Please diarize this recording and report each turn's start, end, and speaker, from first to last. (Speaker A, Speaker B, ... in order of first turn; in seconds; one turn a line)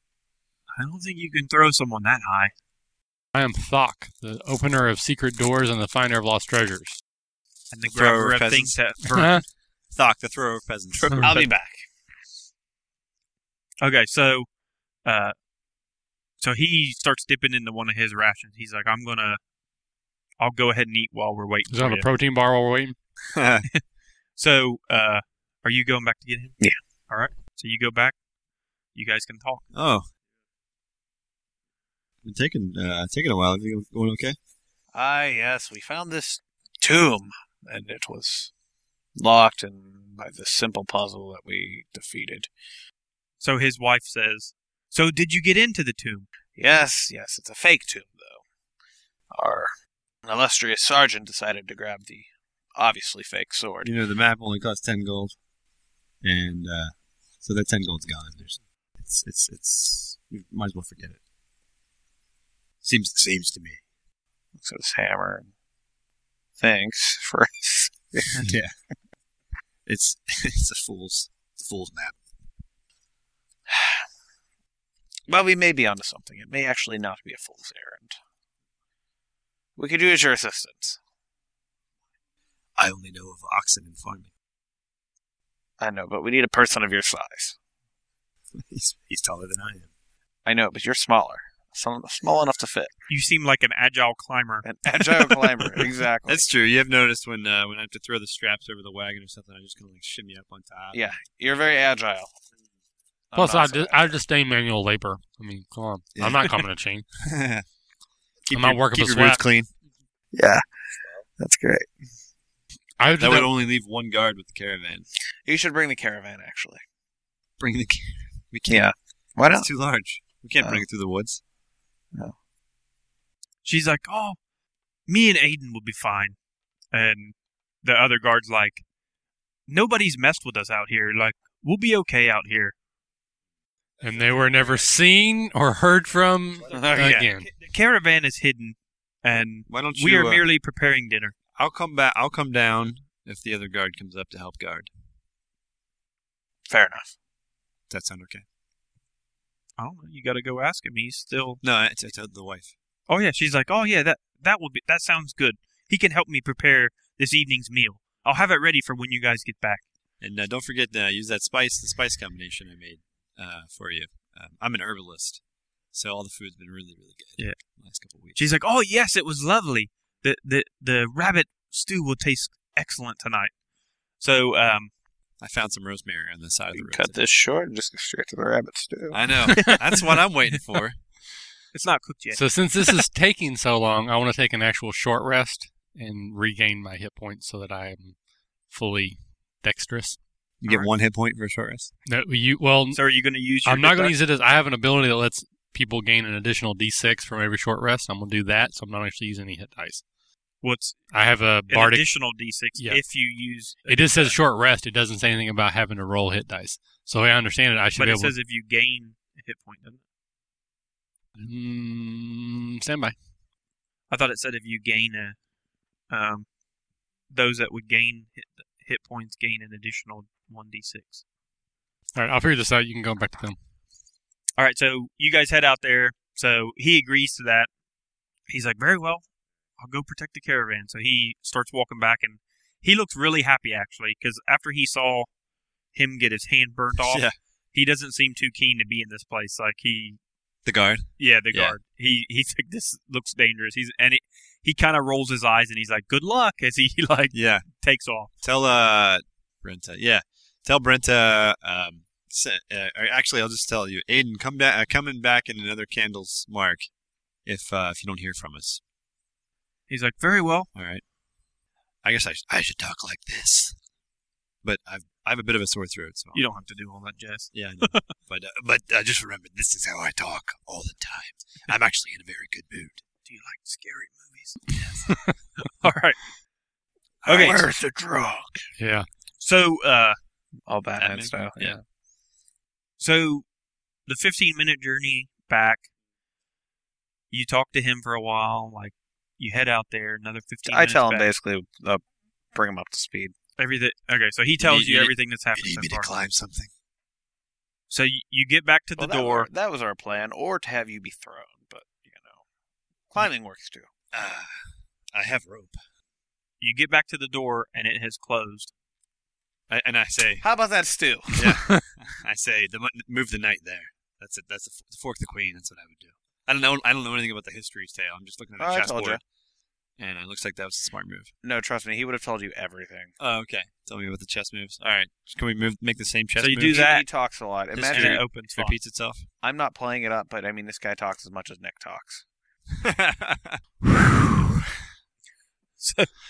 Speaker A: 0.7-2.5
Speaker B: 3.3-7.0
Speaker A: 7.7-9.4
Speaker C: 7.8-8.8
Speaker B: 9.1-9.4
Speaker C: 9.9-11.5
Speaker D: 11.1-11.8
Speaker A: 13.8-14.5
Speaker A: 15.1-15.3
Speaker A: 16.4-19.4
Speaker A: 20.4-22.1
Speaker B: 21.7-23.0
Speaker C: 23.3-23.7
Speaker A: 24.4-26.6
Speaker A: 27.1-28.1
Speaker A: 28.9-29.7
Speaker C: 29.7-30.1
Speaker C: 32.2-34.4
Speaker D: 34.9-38.5
Speaker D: 39.2-42.5
Speaker A: 43.4-46.3
Speaker D: 46.5-48.4
Speaker D: 49.3-49.7
Speaker D: 50.2-53.9
Speaker C: 53.8-55.4
Speaker C: 56.2-61.2
Speaker C: 62.8-63.8
Speaker D: 64.6-65.5
Speaker D: 66.6-68.5
Speaker C: 68.4-68.7
Speaker C: 69.9-72.2
Speaker D: 73.7-74.0
Speaker D: 75.3-78.2
Speaker D: 79.8-81.0
Speaker C: 82.8-84.3
Speaker D: 85.8-87.6
Speaker C: 88.5-89.9
Speaker D: 90.5-92.9
Speaker A: 93.1-94.7
Speaker D: 94.6-96.5
Speaker C: 96.3-101.2
Speaker D: 100.9-102.3
Speaker D: 103.3-104.2
Speaker B: 103.3-107.1
Speaker C: 106.2-106.5
Speaker C: 107.2-107.7
Speaker C: 108.5-109.7
Speaker B: 108.5-109.4
Speaker D: 110.3-110.6
Speaker D: 111.4-111.9
Speaker B: 113.0-113.5
Speaker C: 113.2-115.1
Speaker D: 115.5-116.8
Speaker C: 117.6-118.9
Speaker D: 118.7-119.7
Speaker C: 119.5-121.4
Speaker A: 123.6-124.4
Speaker A: 125.1-126.3
Speaker A: 126.9-128.8
Speaker A: 129.7-132.8
Speaker B: 134.0-137.5
Speaker D: 136.7-137.2
Speaker A: 136.9-141.3
Speaker C: 139.7-140.4
Speaker C: 141.6-144.9
Speaker D: 146.7-147.1
Speaker C: 147.9-148.4
Speaker A: 149.8-151.6
Speaker C: 151.6-152.7
Speaker A: 153.1-159.8
Speaker C: 160.2-165.4
Speaker C: 165.9-168.4
Speaker A: 168.3-173.5
Speaker A: 174.2-174.9
Speaker C: 175.4-177.2
Speaker D: 176.8-179.2
Speaker C: 179.1-181.0
Speaker A: 181.7-183.0
Speaker B: 182.3-188.2
Speaker B: 188.7-190.2
Speaker C: 190.6-191.9
Speaker B: 192.1-193.0
Speaker A: 192.9-194.2
Speaker B: 193.7-200.0
Speaker A: 200.6-201.1
Speaker B: 201.1-202.1
Speaker A: 201.7-204.3
Speaker B: 203.9-208.3
Speaker A: 208.0-210.0
Speaker B: 211.4-213.2
Speaker A: 214.1-215.4
Speaker A: 216.1-216.5
Speaker A: 217.3-221.2
Speaker B: 222.2-223.6
Speaker A: 224.6-227.7
Speaker A: 228.5-229.2
Speaker A: 229.8-235.3
Speaker A: 235.9-240.2
Speaker C: 237.0-237.3
Speaker C: 240.7-241.8
Speaker A: 241.2-248.3
Speaker C: 247.3-247.7
Speaker C: 248.4-256.9
Speaker C: 257.4-258.8
Speaker A: 259.9-260.7
Speaker C: 260.8-261.0
Speaker C: 262.0-263.8
Speaker C: 264.6-266.4
Speaker A: 266.3-268.1
Speaker C: 267.5-273.0
Speaker A: 273.2-276.3
Speaker D: 277.2-278.7
Speaker A: 277.3-277.7
Speaker C: 277.3-277.6
Speaker B: 278.8-279.1
Speaker A: 279.4-280.2
Speaker D: 280.7-281.8
Speaker C: 281.0-281.8
Speaker A: 283.0-283.4
Speaker A: 284.1-285.9
Speaker A: 287.3-291.3
Speaker D: 290.7-292.0
Speaker D: 292.5-293.3
Speaker A: 293.6-296.1
Speaker C: 294.6-296.7
Speaker A: 297.9-299.5
Speaker D: 299.0-302.4
Speaker D: 303.1-303.9
Speaker C: 304.1-305.8
Speaker A: 306.6-308.7
Speaker C: 309.7-310.4
Speaker D: 310.4-311.6
Speaker C: 311.3-319.2
Speaker D: 318.6-319.2
Speaker C: 320.0-321.3
Speaker D: 321.4-323.1
Speaker C: 323.2-326.8
Speaker A: 326.4-327.1
Speaker D: 326.7-328.2
Speaker A: 327.8-328.8
Speaker C: 327.8-329.3
Speaker D: 329.4-332.2
Speaker C: 332.8-333.6
Speaker A: 335.8-336.2